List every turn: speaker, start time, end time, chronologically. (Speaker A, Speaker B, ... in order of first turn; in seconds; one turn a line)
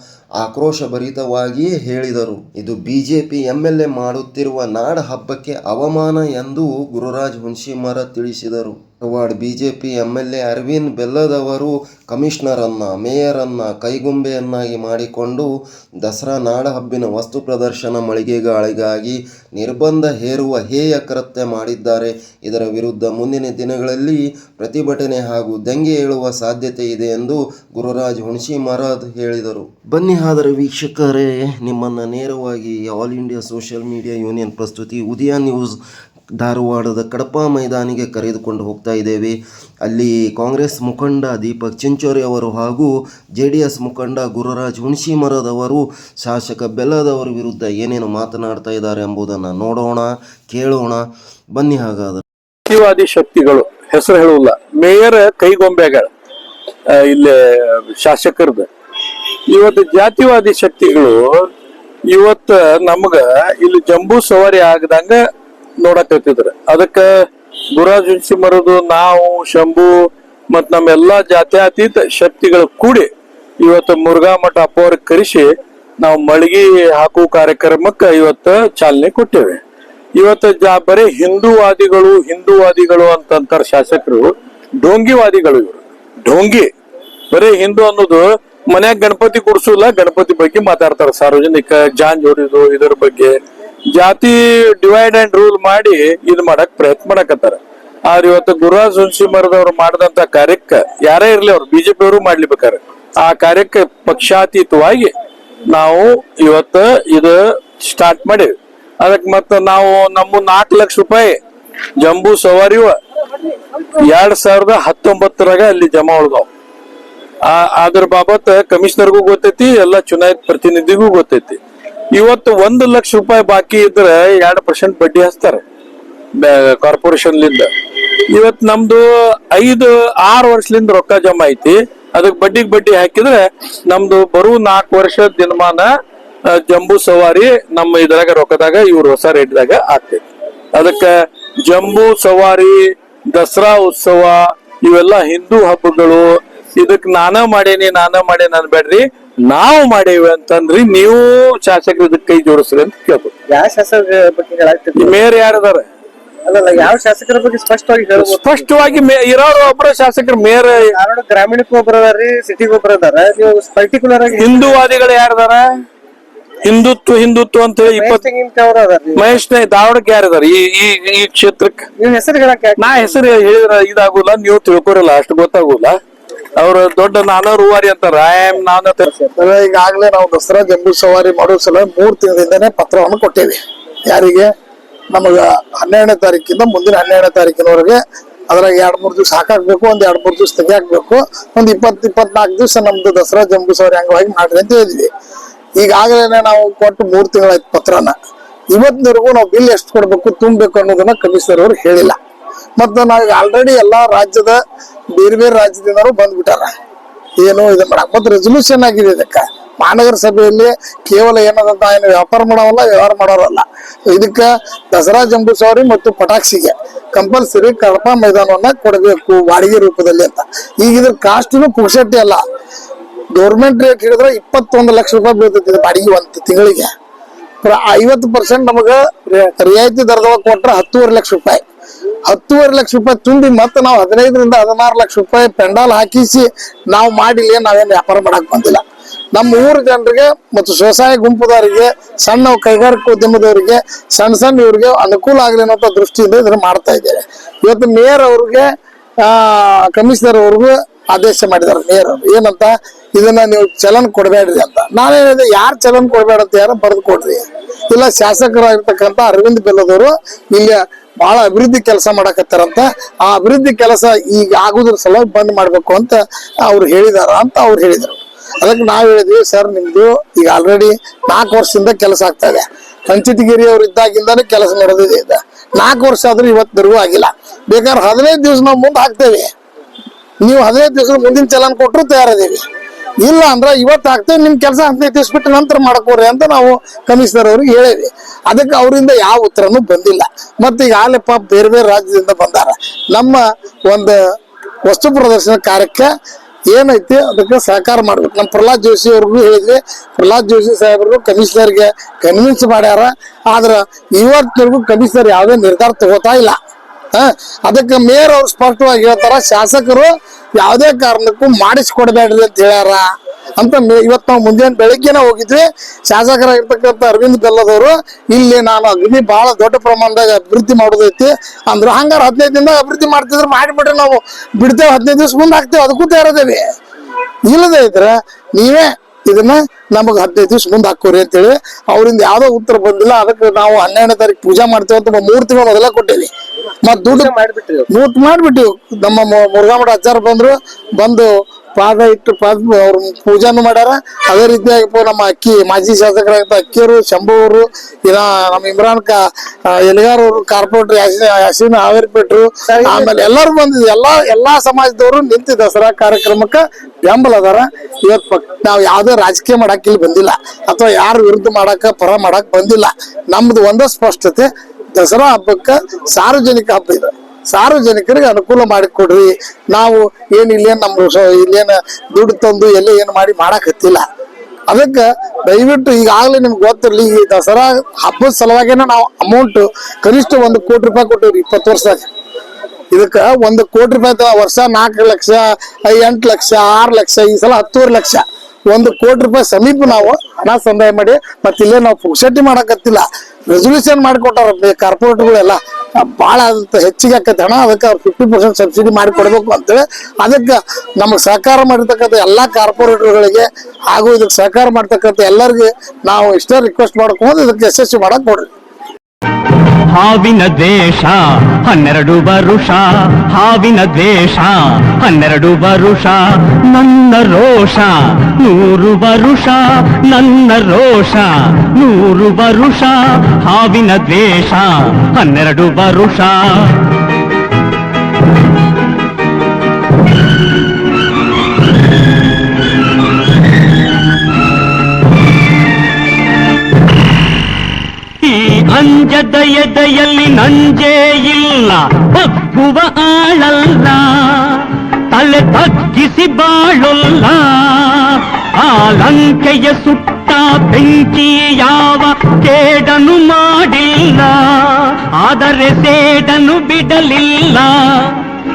Speaker A: 0.4-15.5
Speaker A: 16.0-35.8
Speaker A: 36.4-52.2
Speaker B: 52.7-56.1
Speaker B: 56.9-58.7
Speaker B: 59.5-61.5
Speaker B: 62.1-65.2
Speaker B: 65.8-73.1
Speaker B: 73.6-79.6
Speaker B: 80.2-86.7
Speaker B: 87.3-93.4
Speaker B: 93.9-105.1
Speaker B: 105.7-111.4
Speaker B: 112.0-113.0
Speaker B: 114.0-116.5
Speaker B: 117.4-121.6
Speaker B: 122.1-125.6
Speaker B: 126.4-127.7
Speaker B: 128.3-135.9
Speaker B: 136.5-141.1
Speaker B: 141.6-153.3
Speaker C: 153.5-155.3
Speaker B: 154.9-155.8
Speaker C: 156.5-158.7
Speaker B: 158.1-161.0
Speaker C: 160.9-164.8
Speaker B: 164.3-165.6
Speaker B: 166.6-168.3
Speaker C: 167.8-169.3
Speaker B: 169.1-171.9
Speaker C: 172.0-172.8
Speaker B: 172.8-175.9
Speaker B: 176.6-179.1
Speaker D: 179.3-184.5
Speaker D: 185.1-195.1
Speaker D: 195.8-198.1
Speaker D: 198.7-202.2
Speaker D: 202.8-204.6
Speaker D: 205.1-206.7
Speaker D: 207.4-222.4
Speaker D: 223.3-226.9
Speaker D: 227.6-231.6
Speaker D: 232.3-238.8
Speaker D: 239.3-248.7
Speaker D: 249.2-279.5
Speaker D: 280.4-282.6
Speaker D: 283.2-294.2
Speaker D: 294.9-296.1
Speaker D: 296.7-306.6
Speaker D: 307.1-313.1
Speaker D: 313.6-326.7
Speaker D: 327.5-336.3
Speaker D: 336.8-337.3
Speaker C: 337.1-337.9
Speaker D: 337.9-374.0
Speaker C: 352.7-353.1
Speaker D: 374.7-382.1
Speaker D: 382.9-408.5
Speaker E: 409.9-427.0
Speaker E: 438.2-458.4